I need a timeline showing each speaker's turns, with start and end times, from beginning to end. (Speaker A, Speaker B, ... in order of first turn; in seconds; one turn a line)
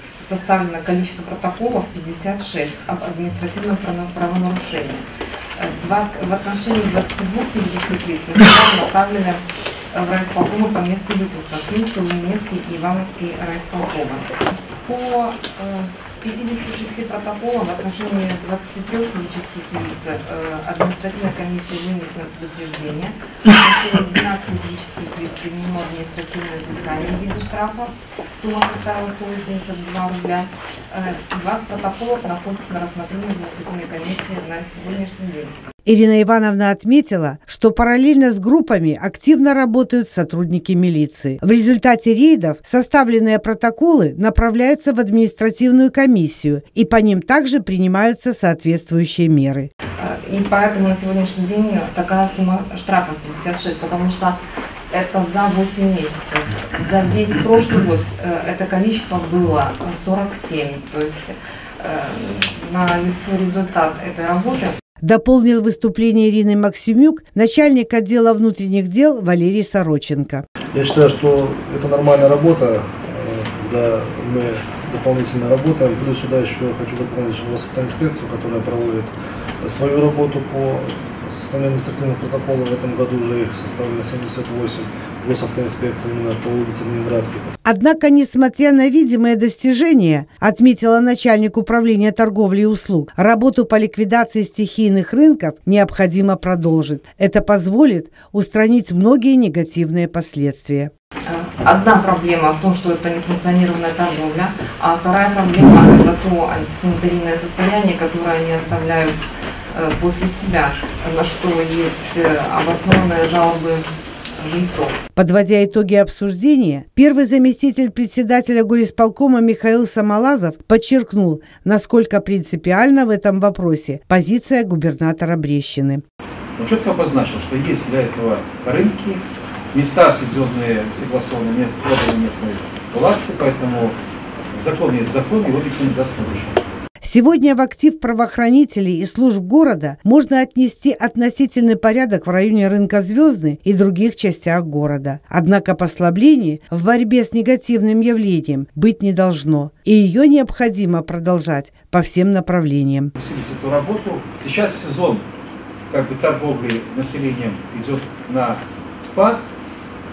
Speaker A: 0.2-5.0
Speaker A: 5.5-35.5
Speaker B: 35.9-49.7
Speaker A: 50.0-64.8
Speaker B: 65.0-70.4
Speaker C: 70.7-87.5
Speaker B: 87.6-100.9
Speaker A: 101.2-109.1
Speaker A: 109.7-115.0
Speaker B: 115.2-126.0
Speaker D: 126.6-134.0
Speaker D: 134.5-136.6
Speaker B: 137.0-153.1
Speaker D: 153.1-155.3
Speaker D: 155.9-159.4